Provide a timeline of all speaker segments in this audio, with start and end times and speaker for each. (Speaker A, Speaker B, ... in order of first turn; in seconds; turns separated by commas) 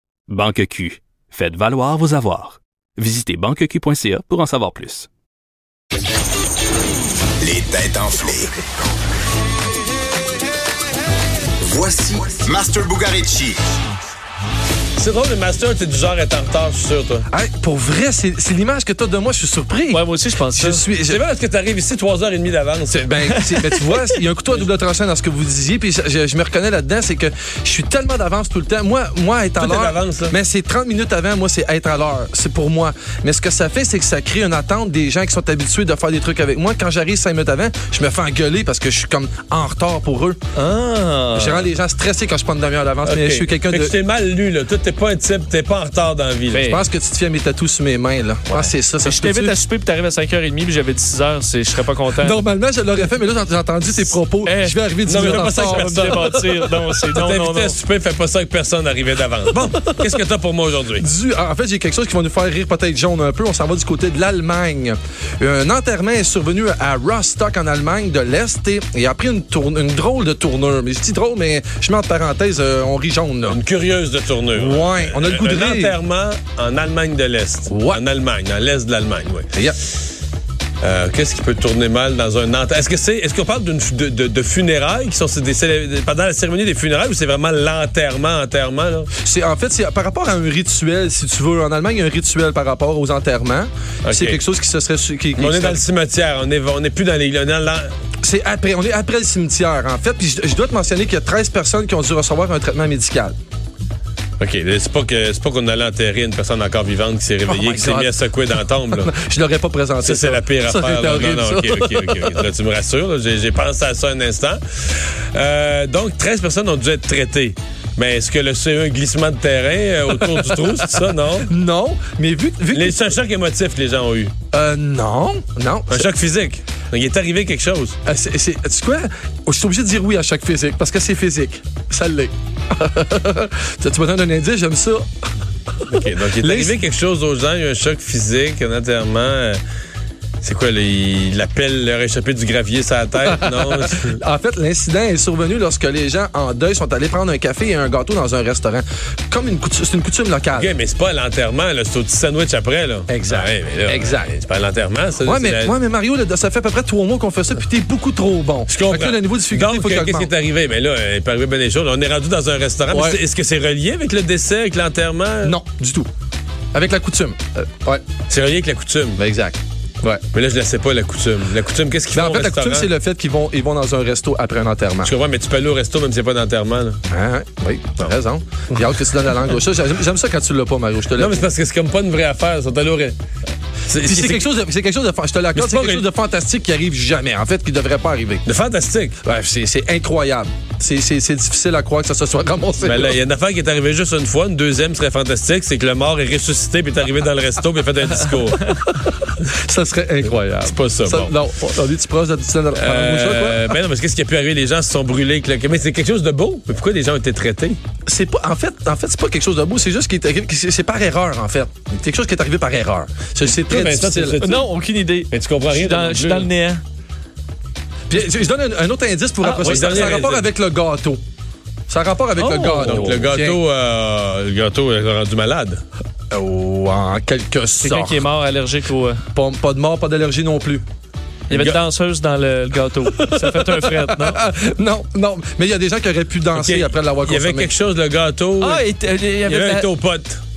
Speaker A: 0.3-5.1, Speaker B: 7.4-8.5, Speaker B: 11.6-13.6, Speaker C: 15.0-17.3, Speaker D: 17.3-21.2, Speaker E: 19.9-20.8, Speaker C: 21.0-23.2, Speaker D: 22.9-40.4, Speaker E: 23.5-23.9, Speaker C: 29.6-30.4, Speaker E: 40.6-41.6, Speaker D: 41.3-43.9, Speaker C: 43.0-46.7, Speaker E: 46.5-46.8, Speaker D: 46.6-49.6, Speaker E: 48.5-52.4, Speaker D: 52.1-56.3, Speaker E: 54.4-57.8, Speaker C: 55.1-61.1, Speaker D: 61.0-73.6, Speaker C: 73.5-79.5, Speaker D: 74.5-76.0, Speaker D: 77.7-78.0, Speaker C: 80.8-89.1, Speaker D: 89.2-95.8, Speaker C: 94.0-94.4, Speaker C: 95.4-97.9, Speaker D: 98.2-103.3, Speaker C: 104.4-109.1, Speaker D: 107.5-112.5, Speaker C: 110.0-121.5, Speaker D: 120.2-120.7, Speaker D: 121.4-123.0, Speaker C: 122.7-124.3, Speaker D: 124.5-126.1, Speaker C: 125.9-128.0, Speaker D: 128.1-135.1, Speaker C: 135.9-139.6, Speaker D: 135.9-136.8, Speaker C: 140.4-144.2, Speaker D: 143.2-150.7, Speaker C: 150.5-155.7, Speaker D: 153.1-154.4, Speaker D: 155.2-160.3, Speaker C: 158.7-165.5, Speaker D: 162.9-163.2, Speaker D: 165.4-166.1, Speaker D: 166.7-168.0, Speaker C: 168.3-169.2, Speaker D: 169.2-170.2, Speaker C: 170.3-172.9, Speaker D: 172.1-175.1, Speaker C: 175.0-177.0, Speaker D: 177.1-181.5, Speaker C: 181.2-183.2, Speaker C: 183.9-184.4, Speaker D: 184.0-188.4, Speaker C: 185.5-186.1, Speaker C: 188.4-189.2, Speaker D: 189.2-193.2, Speaker C: 192.8-198.8, Speaker D: 199.5-203.7, Speaker C: 200.6-201.3, Speaker C: 202.8-207.8, Speaker D: 208.1-214.4, Speaker C: 213.6-214.7, Speaker E: 214.4-216.8, Speaker C: 215.3-216.5, Speaker D: 218.1-221.2, Speaker E: 219.4-219.9, Speaker C: 219.6-220.5, Speaker D: 221.9-223.6, Speaker E: 222.4-223.2, Speaker C: 222.8-225.8, Speaker D: 226.3-228.3, Speaker E: 227.8-229.2, Speaker D: 229.3-230.8, Speaker C: 231.5-231.8, Speaker E: 231.5-234.4, Speaker D: 233.1-237.7, Speaker C: 236.6-238.8, Speaker E: 238.6-239.9, Speaker C: 239.5-240.4